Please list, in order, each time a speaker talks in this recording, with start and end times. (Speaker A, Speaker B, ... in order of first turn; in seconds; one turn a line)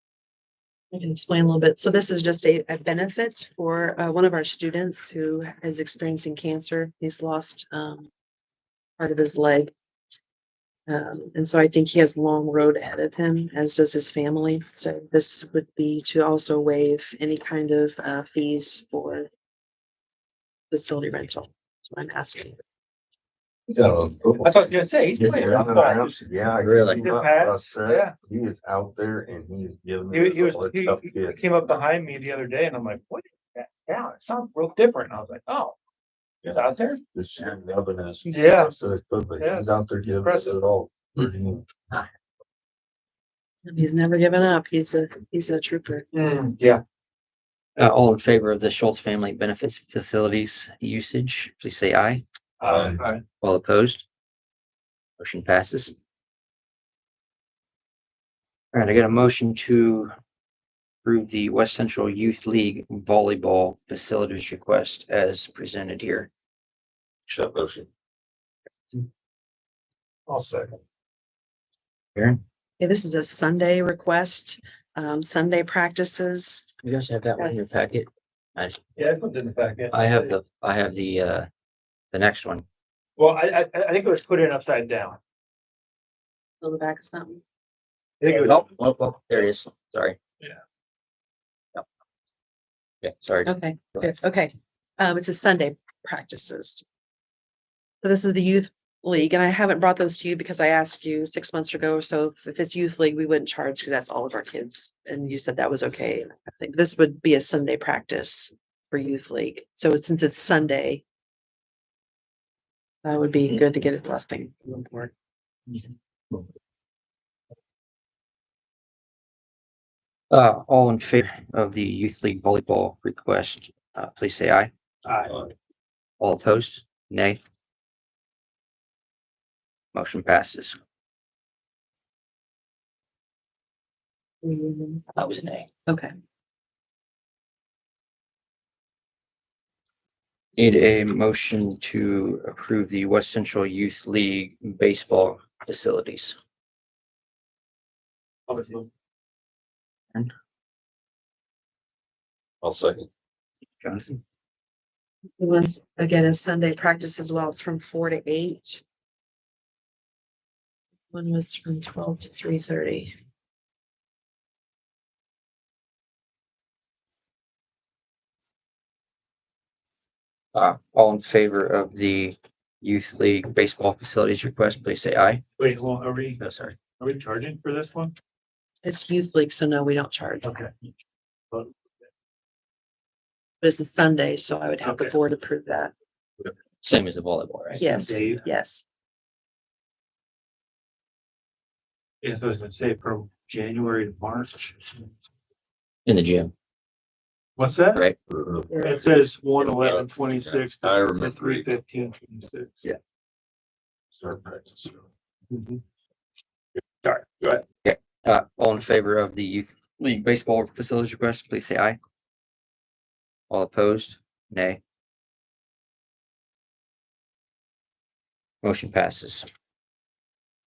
Speaker A: 0.9-8.1
Speaker A: 9.0-9.7
Speaker A: 10.9-19.3
Speaker A: 20.7-22.6
Speaker B: 23.7-31.5
Speaker C: 24.4-26.2
Speaker D: 26.6-27.1
Speaker C: 27.0-28.1
Speaker C: 30.1-35.8
Speaker C: 36.4-37.0
Speaker B: 37.1-41.6
Speaker C: 38.2-38.7
Speaker C: 39.4-39.7
Speaker C: 40.2-40.6
Speaker A: 43.6-46.0
Speaker C: 46.1-46.8
Speaker D: 47.8-52.2
Speaker C: 52.6-53.2
Speaker B: 52.6-53.0
Speaker D: 53.4-54.0
Speaker D: 55.2-55.9
Speaker D: 58.7-60.1
Speaker D: 61.0-66.3
Speaker B: 67.3-67.9
Speaker C: 70.3-70.8
Speaker A: 72.8-76.7
Speaker D: 76.8-78.8
Speaker C: 79.0-80.3
Speaker D: 79.9-81.5
Speaker D: 82.1-82.6
Speaker C: 83.2-85.2
Speaker A: 86.6-87.4
Speaker C: 88.2-88.6
Speaker D: 88.3-90.2
Speaker D: 93.0-94.1
Speaker A: 93.4-96.8
Speaker A: 98.0-111.0
Speaker A: 113.0-115.1
Speaker D: 120.3-124.7
Speaker C: 125.0-125.4
Speaker D: 126.2-127.4
Speaker D: 129.9-130.8
Speaker A: 134.4-135.0
Speaker D: 135.1-135.7
Speaker A: 135.9-136.1
Speaker D: 140.6-146.3
Speaker C: 148.5-148.9
Speaker B: 152.6-153.1
Speaker D: 153.8-154.2
Speaker A: 155.4-158.8
Speaker A: 161.1-163.1
Speaker D: 170.5-175.4
Speaker C: 175.6-176.4
Speaker D: 176.4-176.8
Speaker C: 177.0-178.1
Speaker A: 178.8-180.5
Speaker C: 180.4-180.7
Speaker A: 183.6-185.9
Speaker C: 184.8-185.1
Speaker D: 186.4-187.9
Speaker A: 187.8-188.8
Speaker C: 187.9-188.4
Speaker C: 192.2-195.0
Speaker D: 196.1-196.5
Speaker C: 197.6-198.0
Speaker B: 198.3-201.7
Speaker A: 198.7-199.0
Speaker C: 198.8-202.8
Speaker B: 204.1-205.0
Speaker C: 205.5-205.8
Speaker C: 207.0-207.6
Speaker D: 207.8-212.0
Speaker D: 213.5-214.8
Speaker D: 218.6-219.4